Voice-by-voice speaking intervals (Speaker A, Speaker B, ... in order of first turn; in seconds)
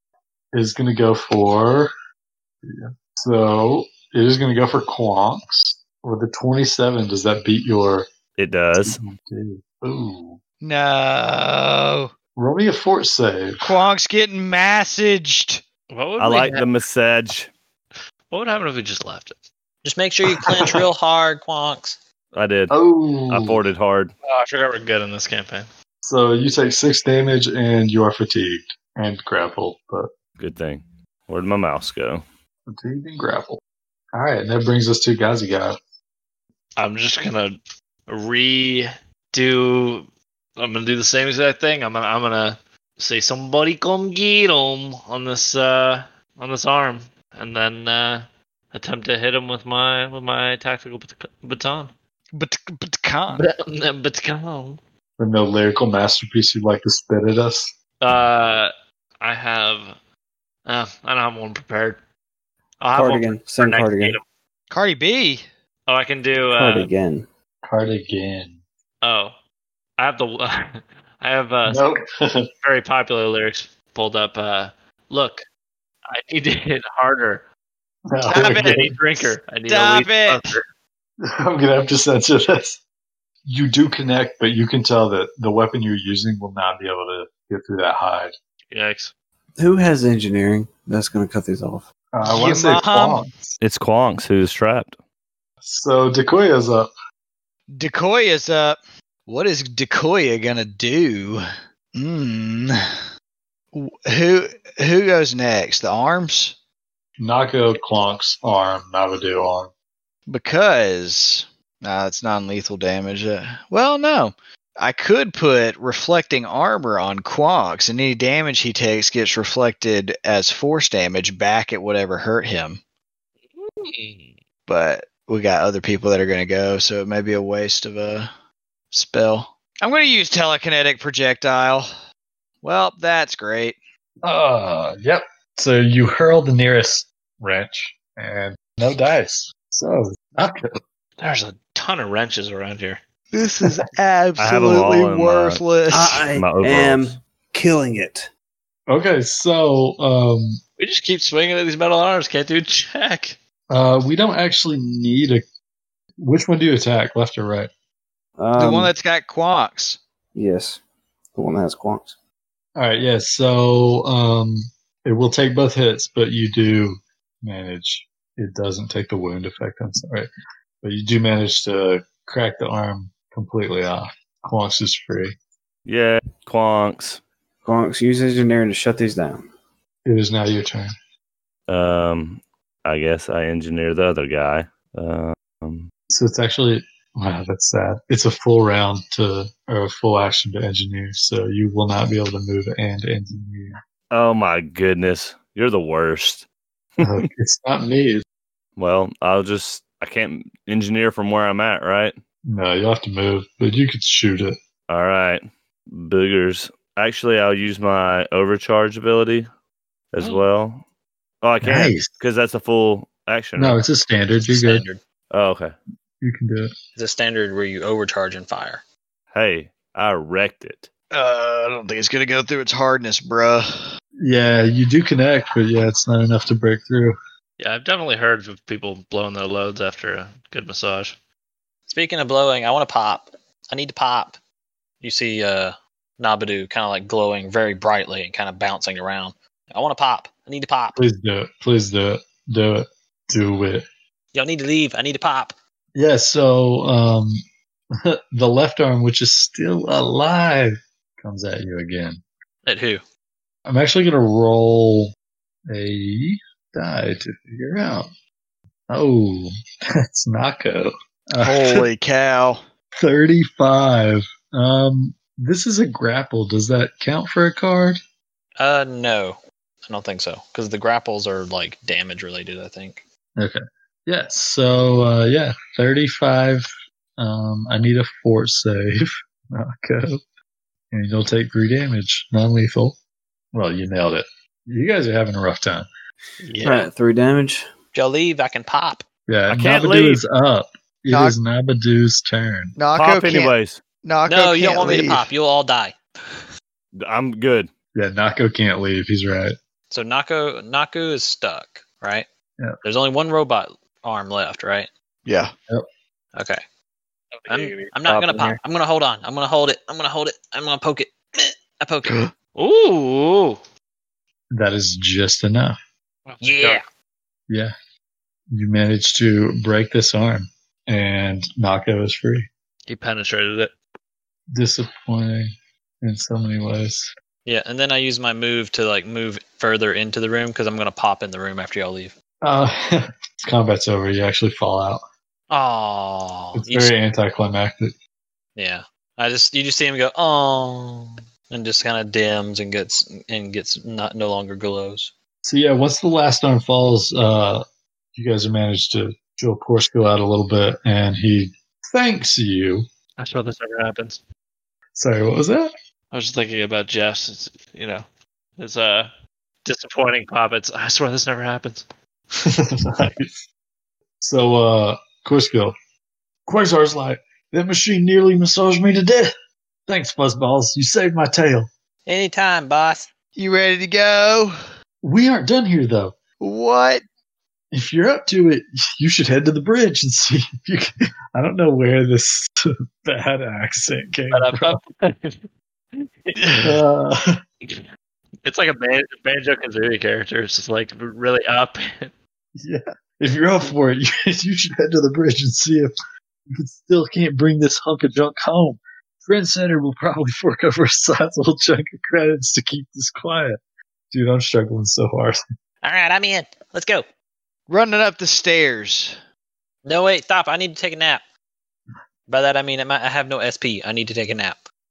Speaker A: 0.5-1.9, 2.6-8.1, 8.8-10.4, 12.3-13.7, 20.2-20.7, 22.7-23.6, 26.0-30.1, 32.7-33.6, 34.1-35.8, 55.2-57.7, 67.6-68.6, 71.7-72.5, 78.1-78.8, 81.2-82.8, 83.5-88.3, 92.1-93.6, 95.6-96.9, 107.2-109.7, 134.2-140.7, 148.9-150.6, 153.7-155.4, 156.2-157.7, 162.8-170.3, 170.8-175.3, 180.0-180.9, 186.1-193.8, 197.0-198.2, 202.5-204.6, 211.6-212.1, 213.6-214.8, 216.2-216.7, 224.2-227.1, 240.9-243.8, 245.9-247.4, 248.0-252.2, 253.7-255.1, 255.7-258.1, 258.9-259.5, 260.0-261.8, 263.0-268.0, 273.4-280.2, 280.9-283.0, 283.5-285.9, 289.3-292.8, 297.9-299.6, 314.5-315.8, 317.5-317.7, 318.5-322.5, 324.5-325.5, 326.0-327.1, 332.4-335.0, 336.5-337.9, 345.4-347.6, 348.1-352.8, 354.9-355.7, 362.4-363.4, 364.2-365.7, 366.5-369.3, 369.9-371.7, 375.0-376.1, 377.7-384.8, 386.6-387.4, 392.6-395.9, 396.6-403.6, 404.1-405.4
Speaker B: 8.4-9.0, 16.2-17.5, 22.3-22.7, 23.3-24.1, 30.4-32.2, 93.6-95.0, 144.4-147.2, 175.8-177.2, 181.7-185.9, 194.1-196.5, 198.8-202.1, 204.9-209.5, 210.1-210.8, 211.4-213.8, 215.3-215.7, 219.3-220.9, 289.5-290.2, 292.9-293.8, 297.0-297.7
Speaker C: 10.6-12.1, 13.6-15.6, 52.3-53.5, 64.7-65.5, 78.3-80.4, 92.2-93.2, 97.7-101.4, 101.9-102.7, 103.7-106.5, 110.3-122.8, 124.7-128.3, 128.9-132.0, 132.6-133.8, 143.3-146.2, 158.6-160.0, 221.1-223.6, 261.4-262.6, 291.1-291.4, 292.8-293.5, 294.0-295.2, 305.2-305.5, 312.0-312.3, 373.4-374.5, 376.4-377.0, 407.7-409.2
Speaker D: 15.9-16.7, 18.3-19.3, 24.2-25.7, 36.8-51.9, 53.3-54.8, 58.0-58.7, 59.2-60.0, 60.6-62.0, 62.8-64.2, 65.9-66.9, 69.0-69.3, 70.0-71.8, 72.6-75.4, 76.1-77.4, 78.3-80.6, 88.7-89.1, 123.5-124.3, 141.2-143.0, 150.8-153.4, 227.6-231.2, 307.3-307.9, 312.6-313.6, 316.3-316.8, 322.9-323.7, 353.2-354.2, 356.1-358.0, 358.6-359.1, 359.6-361.9, 384.3-385.5, 386.0-386.7, 388.4-392.1
Speaker E: 19.8-22.0, 214.3-215.0, 216.9-218.8, 231.9-234.4, 235.0-241.0, 244.3-245.6, 252.6-253.0, 268.6-273.0, 286.5-286.9, 287.9-289.0, 294.2-295.9, 299.9-302.3, 302.8-304.9, 306.3-306.6, 307.5-312.2, 316.4-316.8, 327.4-332.1, 335.5-336.9, 338.6-345.1, 372.1-373.1, 405.8-407.0, 409.8-411.2, 412.3-414.6
Speaker F: 62.9-64.2, 66.5-67.3, 89.6-91.8, 145.9-148.3, 158.4-158.9, 160.3-160.8, 161.3-162.2, 177.6-179.5, 286.6-287.7